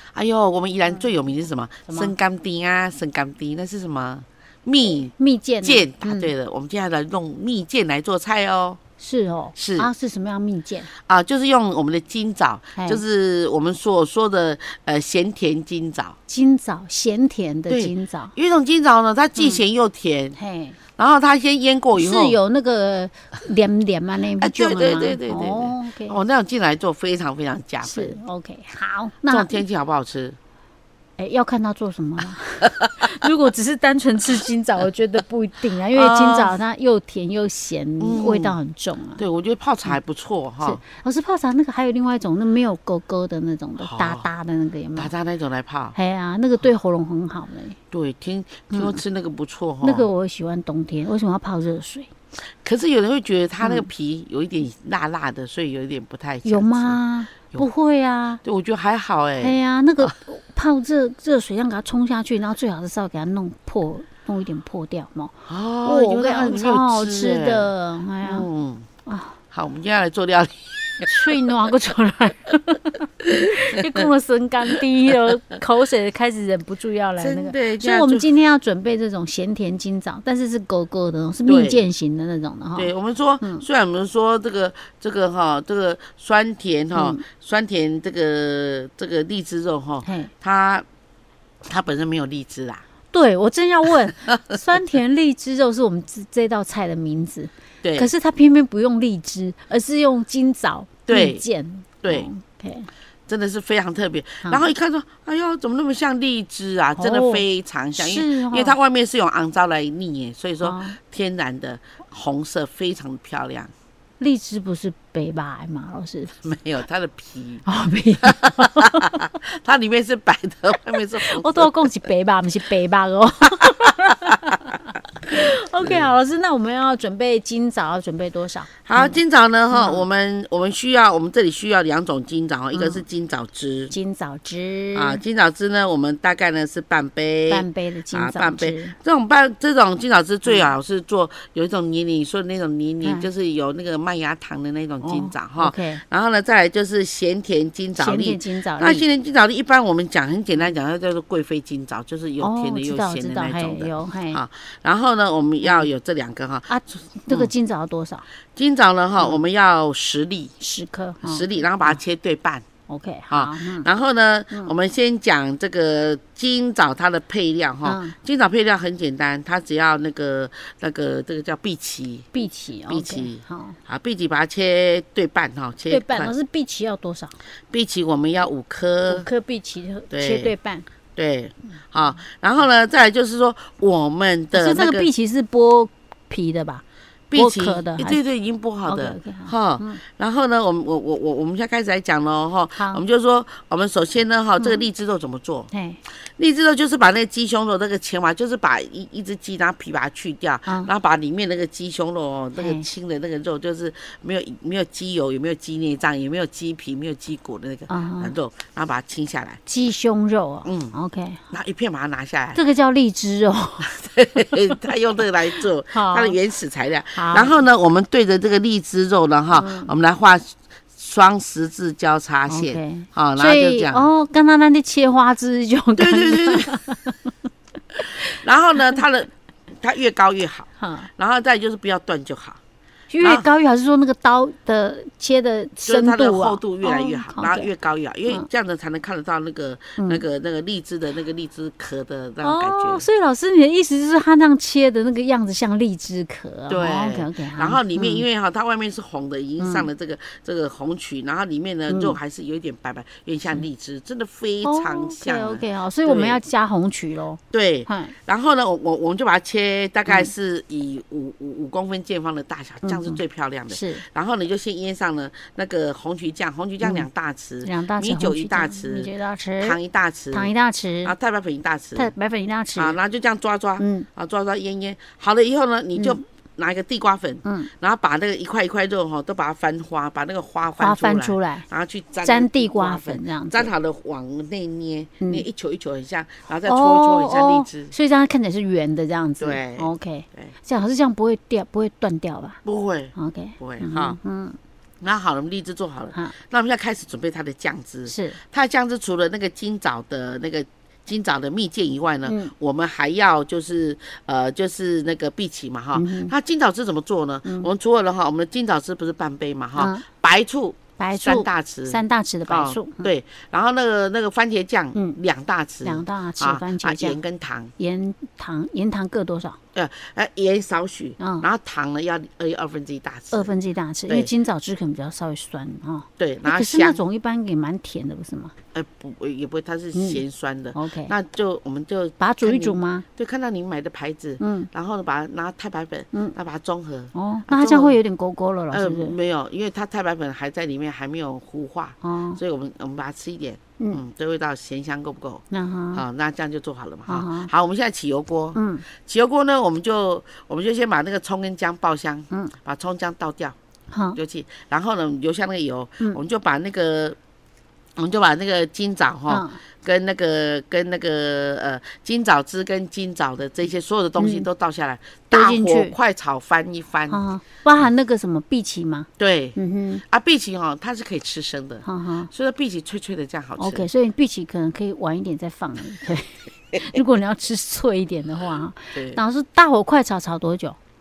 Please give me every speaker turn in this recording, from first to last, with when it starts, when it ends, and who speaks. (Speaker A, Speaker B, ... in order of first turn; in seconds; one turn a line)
Speaker A: 0.1-5.1
Speaker B: 1.9-2.1
Speaker B: 5.1-6.3
Speaker A: 5.6-8.8
Speaker B: 9.0-10.9
Speaker A: 9.5-9.9
Speaker A: 10.9-16.1
Speaker B: 12.8-13.0
Speaker B: 16.3-18.3
Speaker A: 17.7-20.4
Speaker B: 20.3-20.8
Speaker A: 21.0-22.4
Speaker B: 21.9-26.2
Speaker A: 24.4-28.2
Speaker B: 27.8-29.6
Speaker A: 29.3-30.4
Speaker B: 31.2-39.2
Speaker A: 35.9-36.5
Speaker A: 38.0-38.5
Speaker A: 39.2-40.8
Speaker B: 40.6-45.1
Speaker A: 43.8-44.3
Speaker A: 45.0-46.0
Speaker B: 45.9-47.8
Speaker A: 47.9-50.1
Speaker B: 48.7-49.0
Speaker B: 49.8-52.1
Speaker A: 52.6-57.0
Speaker B: 53.6-53.9
Speaker B: 56.4-58.4
Speaker A: 58.4-60.1
Speaker B: 59.4-68.5
Speaker A: 65.5-68.9
Speaker B: 69.0-69.4
Speaker A: 69.5-71.5
Speaker B: 71.0-83.7
Speaker A: 73.3-74.0
Speaker A: 77.2-78.3
Speaker A: 81.5-81.8
Speaker A: 82.7-90.8
Speaker B: 86.9-87.2
Speaker B: 90.0-90.3
Speaker A: 91.6-92.8
Speaker B: 93.1-102.9
Speaker A: 97.8-98.1
Speaker A: 101.1-101.4
Speaker A: 102.0-102.3
Speaker A: 103.3-113.7
Speaker B: 107.0-107.4
Speaker B: 107.9-108.8
Speaker B: 110.6-111.0
Speaker B: 114.2-116.3
Speaker A: 116.4-117.6
Speaker B: 117.6-119.3
Speaker A: 118.2-121.9
Speaker B: 121.2-124.6
Speaker B: 125.2-129.2
Speaker A: 125.8-126.1
Speaker A: 128.8-133.9
Speaker B: 129.7-130.0
Speaker B: 132.7-133.0
Speaker B: 133.9-135.2
Speaker A: 134.9-156.7
Speaker B: 137.5-138.9
Speaker B: 140.4-140.7
Speaker B: 143.0-143.3
Speaker B: 145.0-146.0
Speaker B: 147.9-149.0
Speaker B: 152.4-154.4
Speaker B: 155.6-155.9
Speaker B: 156.7-158.2
Speaker A: 158.5-160.5
Speaker B: 160.6-162.0
Speaker A: 161.2-162.6
Speaker B: 162.9-163.9
Speaker A: 163.3-172.3
Speaker B: 167.8-168.2
Speaker B: 172.3-173.8
Speaker A: 172.9-176.3
Speaker B: 175.9-177.4
Speaker A: 177.7-179.3
Speaker B: 179.1-180.9
Speaker A: 180.1-180.5
Speaker A: 181.2-185.1
Speaker B: 184.5-186.8
Speaker A: 187.3-195.7
Speaker B: 187.3-188.2
Speaker B: 188.8-190.0
Speaker B: 192.7-193.0
Speaker B: 194.6-194.8
Speaker B: 195.7-196.0
Speaker A: 196.3-209.6
Speaker B: 202.6-202.9
Speaker B: 207.9-208.3
Speaker B: 209.7-211.4
Speaker A: 210.6-210.9
Speaker A: 211.5-212.6
Speaker B: 212.5-213.9
Speaker A: 213.8-224.1
Speaker B: 215.9-216.4
Speaker B: 217.1-217.6
Speaker B: 219.5-219.9
Speaker B: 222.5-227.3
Speaker A: 226.0-226.8
Speaker A: 228.4-232.6
Speaker B: 230.8-231.1
Speaker B: 233.1-237.7
Speaker A: 235.8-243.1
Speaker B: 240.0-240.2
Speaker B: 242.4-248.2
Speaker A: 246.7-256.4
Speaker B: 249.6-249.9
Speaker B: 251.9-252.2
Speaker B: 254.6-258.1
Speaker A: 257.5-270.5
Speaker B: 260.1-260.3
Speaker B: 262.8-264.0
Speaker B: 266.8-267.1
Speaker B: 267.6-269.8
Speaker B: 270.3-271.1
Speaker A: 271.0-272.1
Speaker B: 271.9-273.0
Speaker A: 272.7-287.9
Speaker B: 273.8-274.1
Speaker B: 275.9-276.2
Speaker B: 277.4-277.7
Speaker B: 280.8-281.6
Speaker B: 282.2-283.7
Speaker B: 286.6-292.6
Speaker A: 289.4-290.5
Speaker A: 292.6-294.2
Speaker B: 293.1-294.6
Speaker A: 295.0-317.7
Speaker B: 298.1-298.4
Speaker B: 302.2-302.5
Speaker B: 305.9-306.3
Speaker B: 307.4-307.7
Speaker B: 309.8-310.0
Speaker B: 311.0-313.1
Speaker B: 314.9-315.2
Speaker B: 315.8-317.2
Speaker B: 317.8-319.6
Speaker A: 319.7-323.5
Speaker B: 321.2-321.5
Speaker B: 323.3-328.5
Speaker A: 326.2-327.0
Speaker A: 328.7-338.0
Speaker B: 329.9-330.2
Speaker B: 330.7-331.1
Speaker B: 332.2-333.1
Speaker B: 334.4-334.7
Speaker B: 337.1-339.2
Speaker A: 338.7-353.6
Speaker B: 342.0-342.4
Speaker B: 345.5-346.0
Speaker B: 347.1-347.5
Speaker B: 348.5-348.8
Speaker B: 353.9-354.2
Speaker A: 354.1-357.2
Speaker A: 358.0-367.2
Speaker B: 359.3-359.6
Speaker B: 364.2-364.5
Speaker B: 365.3-365.9
Speaker B: 367.1-370.0
Speaker A: 369.2-369.6
Speaker A: 370.1-373.9
Speaker B: 371.8-372.3
Speaker B: 373.6-380.8
Speaker A: 378.9-379.2